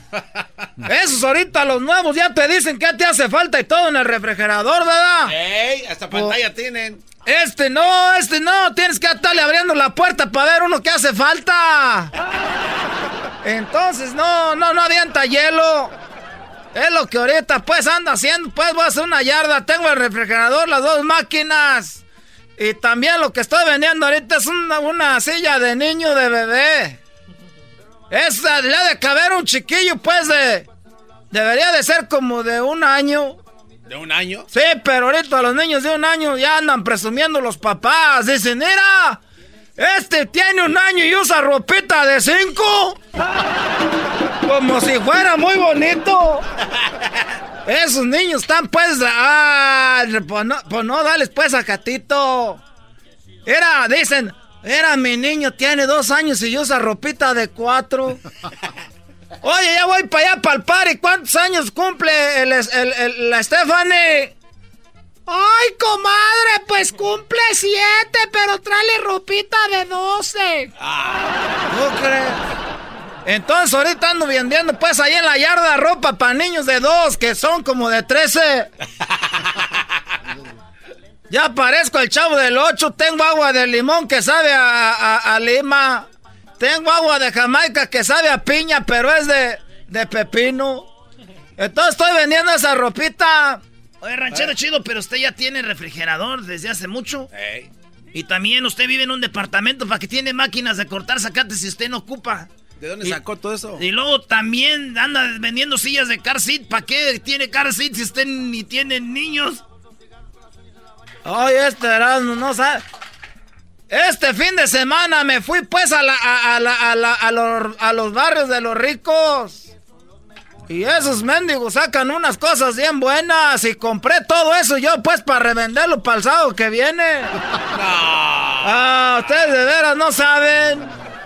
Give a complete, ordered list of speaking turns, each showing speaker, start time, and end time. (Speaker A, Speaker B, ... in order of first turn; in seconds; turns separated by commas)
Speaker A: 0.8-5.4, Speaker B: 5.3-7.0, Speaker A: 6.1-6.4, Speaker A: 7.2-12.1, Speaker A: 13.4-15.9, Speaker A: 16.7-22.0, Speaker A: 22.6-27.0, Speaker A: 28.1-30.7, Speaker A: 31.3-33.4, Speaker B: 33.9-34.5, Speaker A: 34.5-39.2, Speaker A: 39.8-43.0, Speaker A: 44.4-46.4, Speaker A: 47.7-52.6, Speaker A: 53.5-58.2, Speaker A: 59.4-64.3, Speaker A: 65.3-70.7, Speaker B: 70.8-71.3, Speaker A: 71.7-72.4, Speaker A: 73.2-78.7, Speaker A: 81.3-86.1, Speaker A: 86.6-90.9, Speaker A: 91.6-93.6, Speaker C: 94.0-97.3, Speaker B: 97.3-97.7, Speaker C: 98.1-102.5, Speaker B: 102.8-103.8, Speaker C: 103.8-109.6, Speaker A: 111.2-112.8, Speaker A: 113.9-119.7, Speaker A: 120.7-127.3, Speaker B: 127.7-128.8, Speaker A: 128.6-130.9